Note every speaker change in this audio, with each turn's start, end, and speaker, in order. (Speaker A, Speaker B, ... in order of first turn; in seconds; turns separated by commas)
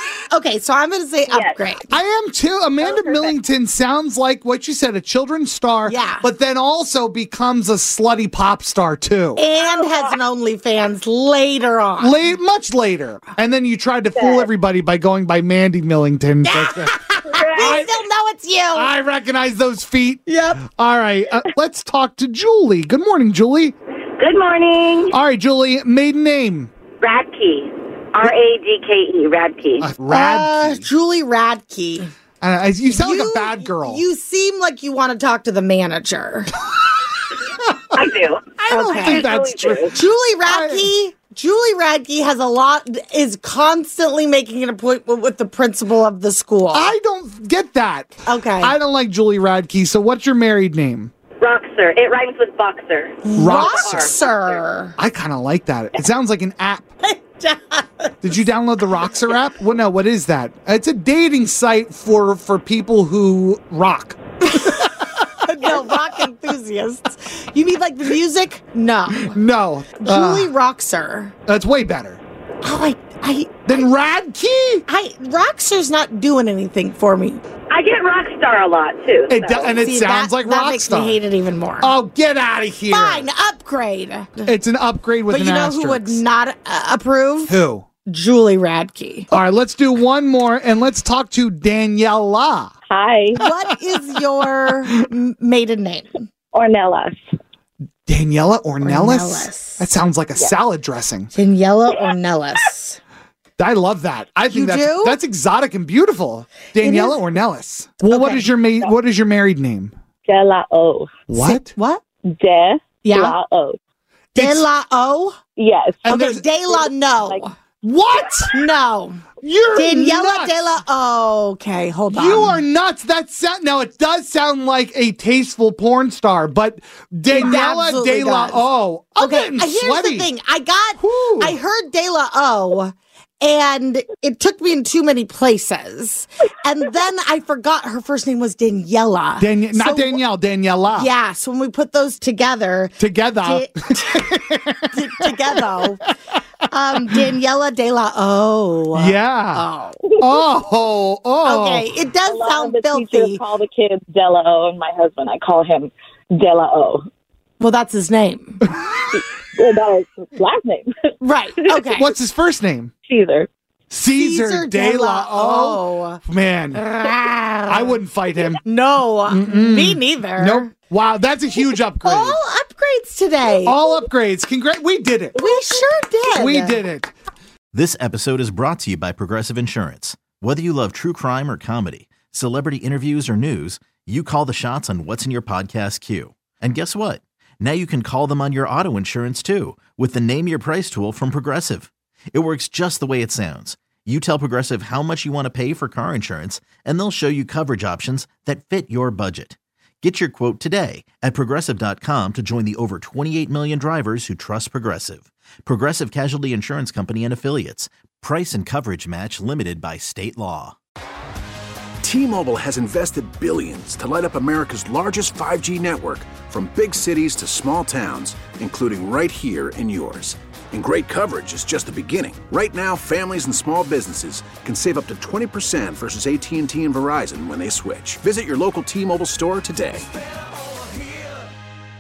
Speaker A: 0.3-1.9, Speaker B: 1.3-1.6, Speaker C: 1.9-9.4, Speaker B: 2.8-3.3, Speaker A: 5.9-6.3, Speaker A: 9.4-12.2, Speaker C: 12.0-17.0, Speaker D: 14.2-14.5, Speaker A: 16.4-18.9, Speaker D: 17.2-17.8, Speaker C: 17.6-17.9, Speaker C: 18.7-23.8, Speaker A: 20.3-20.6, Speaker D: 24.2-25.1, Speaker C: 25.1-26.7, Speaker D: 27.0-29.9, Speaker C: 29.8-30.9, Speaker A: 30.1-32.1, Speaker C: 32.4-34.0, Speaker A: 32.8-36.5, Speaker D: 37.9-38.5, Speaker C: 38.6-40.9, Speaker A: 38.7-39.3, Speaker D: 39.2-39.9, Speaker A: 39.9-46.9, Speaker C: 46.7-51.1, Speaker A: 48.2-48.8, Speaker D: 51.4-54.6, Speaker A: 53.2-55.0, Speaker C: 53.4-54.1, Speaker C: 55.0-56.9, Speaker A: 57.0-58.5, Speaker C: 58.2-64.9, Speaker A: 64.4-69.4, Speaker C: 69.2-70.5, Speaker A: 70.0-71.3, Speaker C: 71.5-72.2, Speaker A: 72.6-73.9, Speaker C: 73.7-74.8, Speaker A: 74.9-77.4, Speaker D: 77.7-79.8, Speaker C: 79.3-81.2, Speaker A: 79.5-81.9, Speaker C: 81.8-83.3, Speaker A: 82.9-84.5, Speaker C: 84.5-86.2, Speaker A: 85.3-89.3, Speaker C: 87.5-87.9, Speaker C: 89.3-92.7, Speaker B: 92.9-93.4, Speaker A: 93.4-96.3, Speaker B: 96.5-97.2, Speaker C: 98.1-101.3, Speaker A: 98.8-99.8, Speaker A: 101.3-103.0, Speaker C: 103.6-109.9, Speaker A: 104.5-105.2, Speaker A: 106.8-107.2, Speaker A: 108.0-108.5, Speaker B: 110.3-111.1, Speaker C: 111.3-111.8, Speaker A: 111.4-112.0, Speaker B: 112.3-113.8, Speaker A: 113.0-113.4, Speaker C: 114.3-114.7, Speaker A: 114.4-115.4, Speaker B: 115.6-116.1, Speaker C: 116.0-116.4, Speaker A: 116.0-117.5, Speaker B: 116.7-117.5, Speaker C: 117.8-118.5, Speaker A: 118.5-122.6, Speaker C: 119.4-120.6, Speaker C: 122.1-130.3, Speaker A: 127.3-128.7, Speaker A: 129.2-140.2, Speaker C: 131.0-131.6, Speaker C: 139.4-141.1, Speaker A: 140.9-146.0, Speaker C: 143.0-144.9, Speaker A: 146.7-150.0, Speaker C: 148.9-149.7, Speaker C: 150.2-151.9, Speaker A: 151.4-153.4, Speaker B: 152.3-157.1, Speaker A: 157.6-158.7, Speaker B: 159.1-160.9, Speaker A: 161.2-162.1, Speaker B: 161.6-161.9, Speaker C: 162.0-162.9, Speaker B: 163.1-163.5, Speaker C: 163.9-166.8, Speaker A: 164.2-166.2, Speaker A: 166.7-168.0, Speaker C: 167.7-168.6, Speaker A: 168.6-170.7, Speaker C: 169.3-172.4, Speaker A: 172.0-173.8, Speaker C: 173.6-175.5, Speaker A: 175.3-176.8, Speaker C: 176.3-177.1, Speaker E: 177.7-210.8, Speaker F: 212.0-230.1